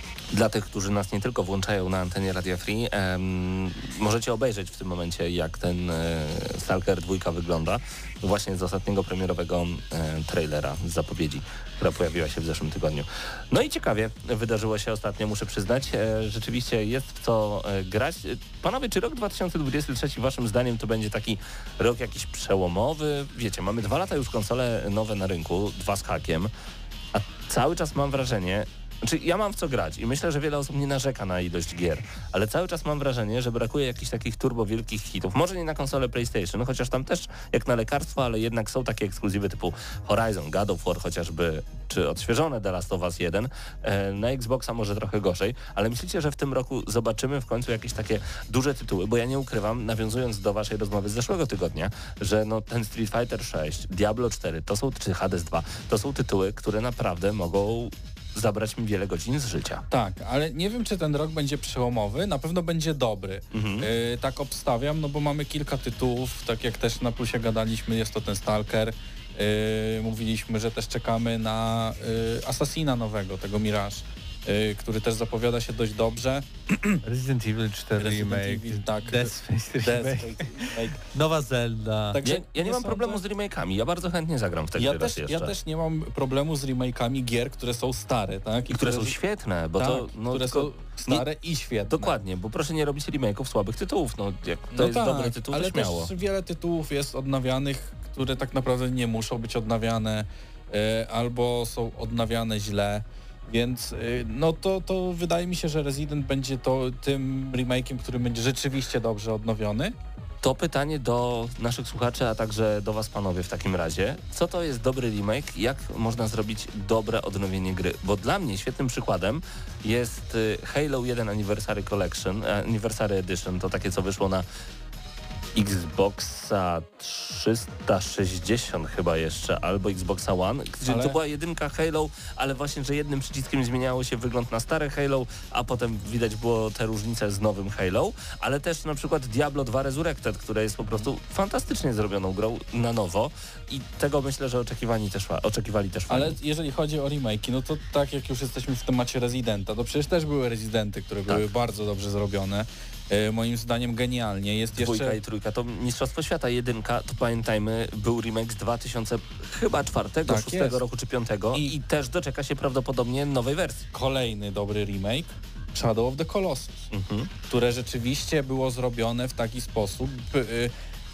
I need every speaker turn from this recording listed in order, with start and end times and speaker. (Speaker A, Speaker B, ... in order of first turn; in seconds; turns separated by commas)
Speaker A: 0.3-26.5, Speaker A: 27.1-59.8, Speaker B: 59.9-77.0, Speaker A: 63.5-63.9, Speaker C: 77.0-82.2, Speaker B: 78.0-81.0, Speaker B: 82.1-83.2, Speaker A: 82.2-85.5, Speaker B: 84.8-89.2, Speaker A: 88.7-91.2, Speaker B: 89.8-92.2, Speaker A: 91.9-96.1, Speaker B: 94.7-110.0, Speaker A: 110.4-124.4, Speaker A: 125.6-146.4, Speaker B: 130.8-131.2, Speaker B: 146.1-155.2, Speaker A: 154.8-163.9, Speaker B: 160.3-160.8, Speaker B: 163.9-166.9, Speaker A: 166.9-167.3, Speaker B: 167.5-170.7